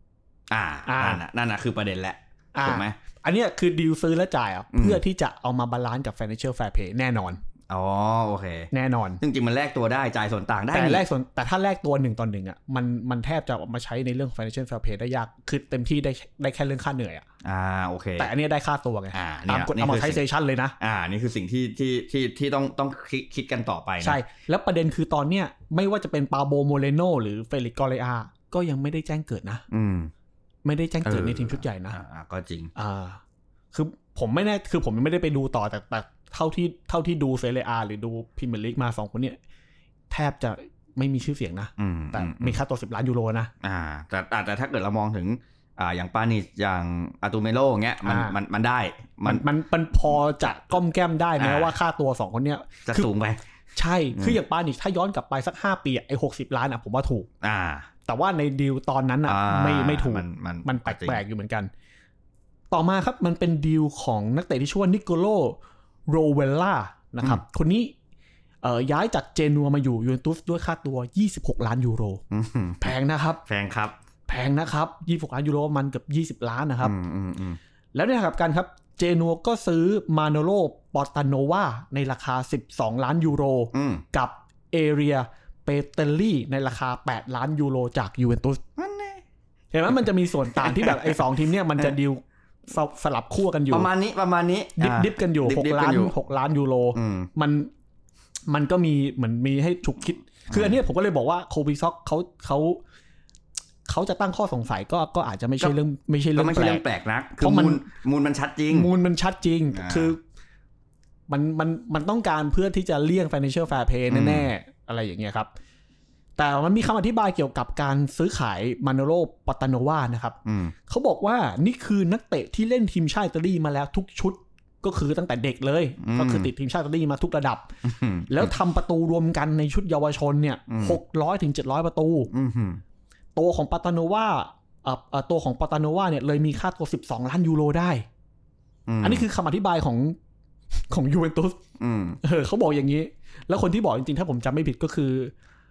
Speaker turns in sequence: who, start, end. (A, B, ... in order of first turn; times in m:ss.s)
0:00.5-0:03.0 A
0:00.8-0:01.2 B
0:02.5-0:07.4 B
0:04.7-0:05.0 A
0:07.7-0:08.7 A
0:08.7-0:09.2 B
0:09.2-0:11.0 A
0:10.7-0:17.2 B
0:17.4-0:18.3 A
0:18.2-0:20.8 B
0:19.1-0:20.2 A
0:20.8-0:24.2 A
0:24.0-0:29.6 B
0:29.7-0:30.1 A
0:30.6-0:32.0 B
0:31.0-0:32.7 A
0:32.8-0:33.2 B
0:33.7-0:39.4 B
0:40.1-0:43.5 B
0:41.8-0:42.6 A
0:43.6-0:49.4 A
0:48.0-0:48.4 B
0:49.2-0:53.1 B
0:51.4-0:51.7 A
0:52.8-0:53.4 A
0:53.7-0:57.3 B
0:57.4-0:57.9 A
0:58.0-1:01.7 B
0:59.2-1:01.2 A
1:02.7-1:07.9 B
1:08.6-1:12.2 B
1:12.3-1:12.9 A
1:12.8-1:13.4 B
1:13.4-1:13.9 A
1:14.3-1:16.9 B
1:16.8-1:17.6 A
1:17.9-1:28.6 B
1:23.7-1:24.0 A
1:28.8-1:29.2 A
1:29.7-1:33.9 B
1:30.6-1:31.2 A
1:33.7-1:36.1 A
1:34.8-1:37.7 B
1:36.9-1:37.3 A
1:38.5-1:42.8 B
1:40.5-1:40.8 A
1:43.9-1:46.8 B
1:46.4-1:48.9 A
1:47.4-1:47.9 B
1:48.7-1:50.2 B
1:49.7-1:50.1 A
1:51.3-1:55.5 B
1:54.1-1:54.5 A
1:56.4-2:07.7 B
2:00.4-2:00.7 A
2:06.0-2:06.5 A
2:07.8-2:08.5 A
2:08.3-2:12.3 B
2:10.7-2:11.0 A
2:12.3-2:12.8 A
2:13.3-2:18.0 B
2:18.9-2:19.2 A
2:19.0-2:20.2 B
2:20.9-2:21.6 B
2:21.8-2:22.2 A
2:22.2-2:25.3 B